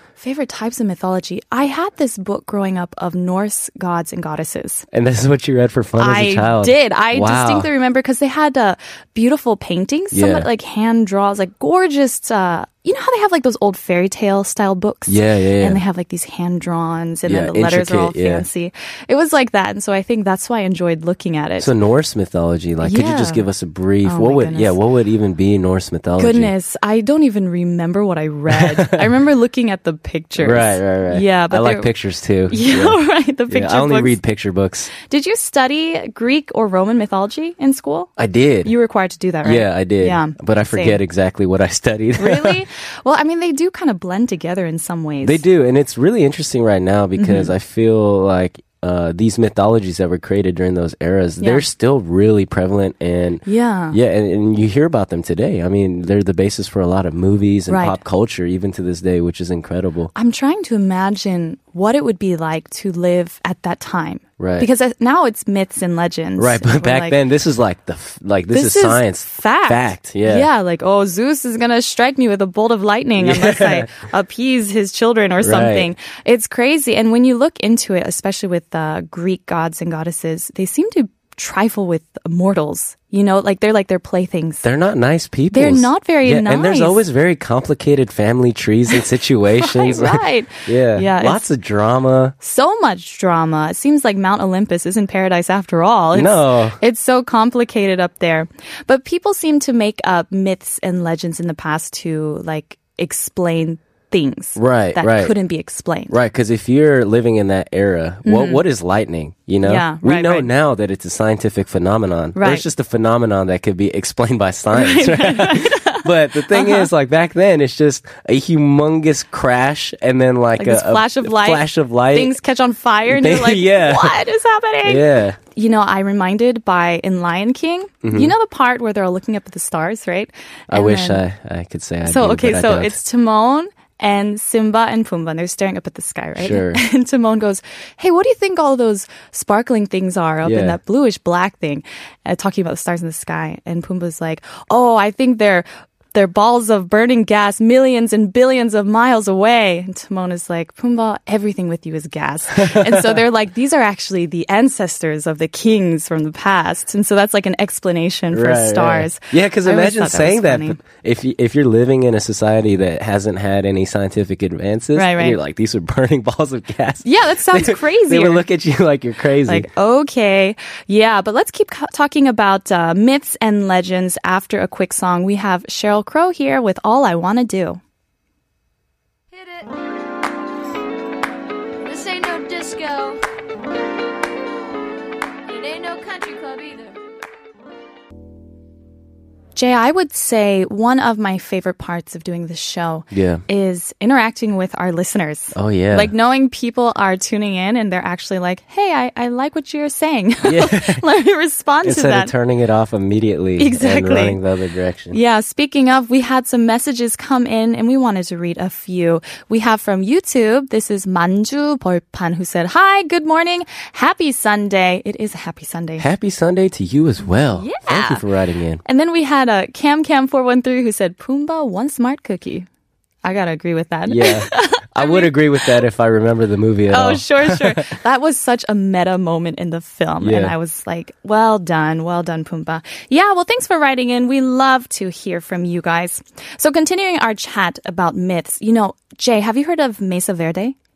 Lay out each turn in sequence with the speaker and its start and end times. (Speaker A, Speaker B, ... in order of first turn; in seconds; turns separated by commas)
Speaker A: 0.2-4.8, Speaker B: 4.9-7.7, Speaker A: 6.0-21.7, Speaker B: 10.1-10.5, Speaker B: 15.1-15.8, Speaker B: 17.3-18.4, Speaker B: 21.6-26.5, Speaker A: 22.8-23.4, Speaker A: 24.0-24.7, Speaker A: 26.2-31.9, Speaker B: 28.5-29.0, Speaker B: 30.4-34.9, Speaker A: 32.5-34.2, Speaker A: 34.9-38.1, Speaker B: 38.2-38.7, Speaker A: 38.6-41.0, Speaker B: 39.4-42.6, Speaker A: 42.2-45.4, Speaker B: 45.2-60.1, Speaker A: 47.2-47.5, Speaker A: 51.4-51.6, Speaker A: 53.4-54.0, Speaker A: 57.7-58.0, Speaker A: 60.1-67.2, Speaker B: 64.4-64.7, Speaker B: 66.4-70.5, Speaker A: 68.5-84.7, Speaker B: 73.2-73.9, Speaker B: 75.4-75.9, Speaker B: 84.6-92.3, Speaker A: 85.5-87.0, Speaker A: 89.6-91.4, Speaker A: 92.4-106.2, Speaker B: 96.1-96.8, Speaker B: 104.5-105.3, Speaker B: 106.1-122.3, Speaker A: 108.2-108.6, Speaker A: 109.6-110.5, Speaker A: 112.3-112.6, Speaker A: 114.7-116.9, Speaker A: 120.6-131.2, Speaker B: 123.0-124.2, Speaker B: 124.8-125.4, Speaker B: 128.0-128.3, Speaker B: 130.7-133.0, Speaker A: 132.1-160.8, Speaker B: 136.3-136.8, Speaker B: 140.4-140.8, Speaker B: 152.6-153.2, Speaker B: 158.3-169.7, Speaker A: 164.9-165.4, Speaker A: 167.0-168.4, Speaker A: 169.4-177.8, Speaker C: 179.3-179.8, Speaker C: 181.8-183.2, Speaker C: 185.5-186.9, Speaker A: 189.6-202.3, Speaker B: 193.1-193.4, Speaker B: 195.5-196.1, Speaker B: 200.4-201.0, Speaker B: 201.8-205.2, Speaker A: 203.6-204.4, Speaker A: 205.1-216.1, Speaker B: 216.0-218.8, Speaker A: 217.5-218.2, Speaker A: 218.8-222.7, Speaker A: 223.2-225.8, Speaker B: 224.1-227.8, Speaker A: 226.9-240.7, Speaker B: 230.2-230.5